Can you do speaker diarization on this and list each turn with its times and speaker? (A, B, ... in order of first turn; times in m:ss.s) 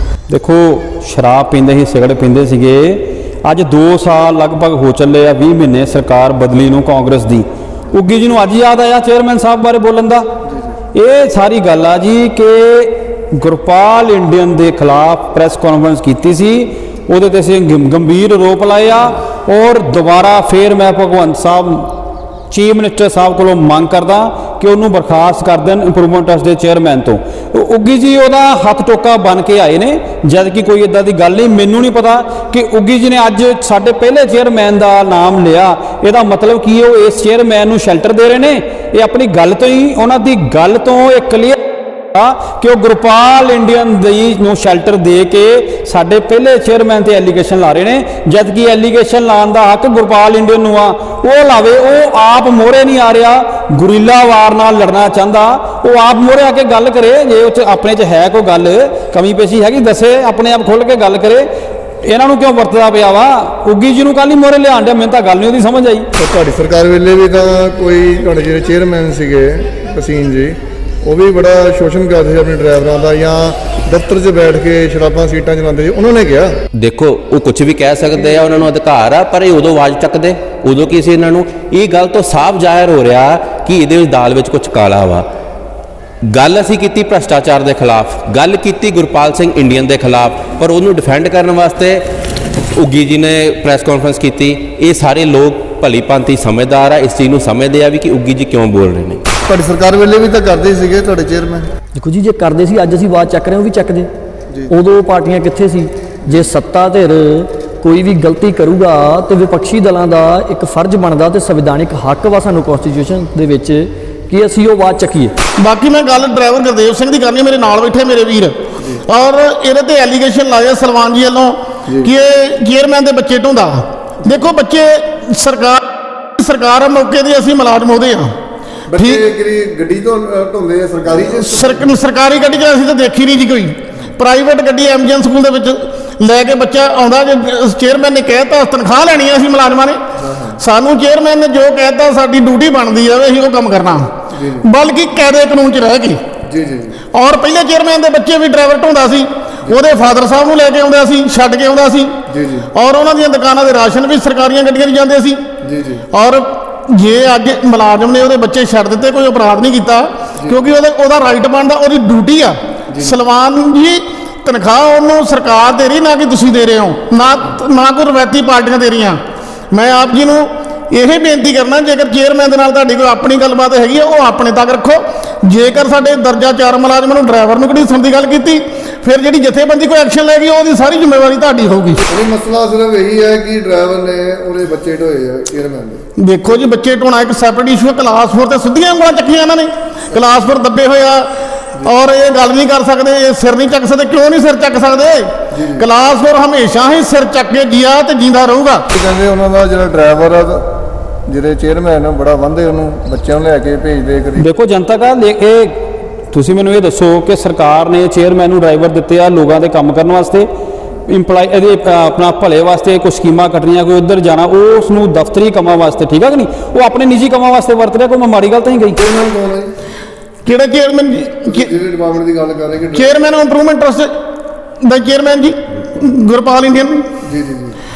0:00.3-0:10.3 A
0:10.9-0:22.0 A
0:22.5-0:41.6 A
0:42.1-1:01.5 A
1:02.0-1:06.1 A
1:06.2-1:16.5 B
1:16.8-1:25.2 C
1:26.3-1:32.0 C
1:32.8-1:39.2 C
1:39.5-1:41.7 B
1:42.0-1:44.1 D
1:44.7-1:55.4 D
1:55.6-2:05.8 E
2:04.2-2:04.5 B
2:06.4-2:08.3 E
2:08.9-2:11.9 B
2:09.0-2:09.2 E
2:11.3-2:20.0 E
2:20.2-2:20.6 B
2:20.6-2:26.2 E
2:24.3-2:24.6 B
2:26.4-2:27.0 B
2:27.1-2:32.2 E
2:32.3-2:32.7 B
2:32.7-2:35.4 E
2:35.6-2:36.0 B
2:36.1-2:49.2 E
2:40.4-2:40.7 B
2:42.9-2:43.2 B
2:49.7-3:02.0 E
3:02.1-3:06.0 B
3:06.2-3:11.3 E
3:11.8-3:18.8 E
3:15.5-3:15.9 B
3:18.9-3:20.6 B
3:21.3-3:24.5 B
3:24.4-3:30.5 A
3:31.1-3:39.0 A
3:38.9-3:39.7 B
3:40.4-3:41.7 E
3:41.4-3:43.1 B
3:42.9-3:44.1 E
3:44.8-3:47.0 E
3:47.2-3:47.8 B